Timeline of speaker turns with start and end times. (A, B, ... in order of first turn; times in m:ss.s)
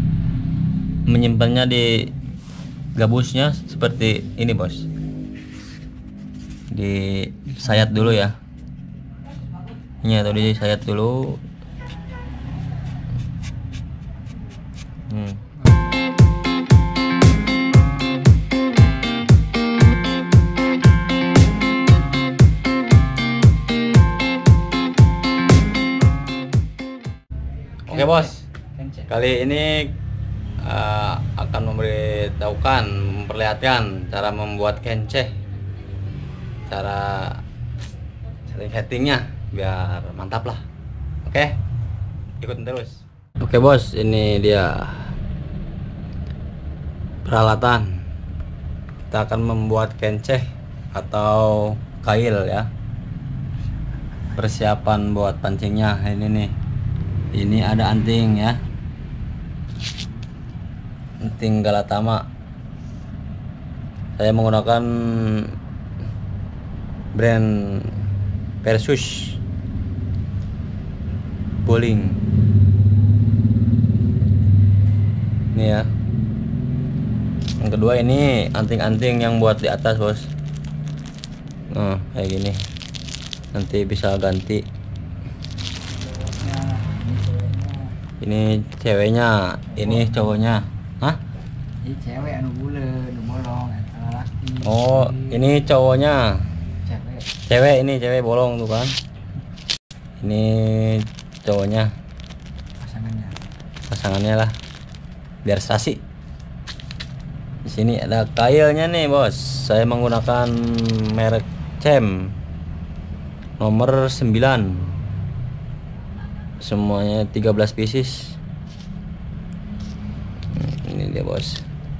0:01.1-0:02.1 A
0:03.0-0:04.9 A
0:06.7-0:08.4 A
0:07.5-0:08.2 B
0:10.0-0:11.4 A
0:15.1-0:15.4 A
0:15.6-0:16.0 B
0:27.9-0:28.4 A
0:27.9-0:29.1 B
0:29.1-0:29.9 A
0:30.6-0:35.3 A
0:36.7-0:37.4 A
0:38.5-0:40.6 A
0:41.2-0:41.6 A
0:42.4-0:45.1 A
0:47.2-0:47.9 A
0:49.1-0:52.7 A
0:54.3-0:56.5 A
0:57.3-0:58.6 A
1:01.2-1:02.2 A
1:04.2-1:05.5 A
1:07.1-1:07.9 A
1:08.6-1:09.4 A
1:11.6-1:12.2 A
1:15.5-1:15.9 A
1:17.6-1:20.3 A
1:21.7-1:22.6 A
1:23.5-1:24.6 A
1:26.0-1:27.9 B
1:28.2-1:31.2 A
1:29.7-1:30.4 B
1:31.8-1:35.4 B
1:34.6-1:36.4 A
1:36.8-1:37.3 B
1:37.4-1:39.0 A
1:40.2-1:41.9 A
1:42.8-1:43.4 B
1:43.9-1:44.5 A
1:45.4-1:46.0 A
1:47.6-1:52.3 A
1:53.6-1:54.8 A
1:56.6-1:58.4 A
2:00.5-2:01.6 A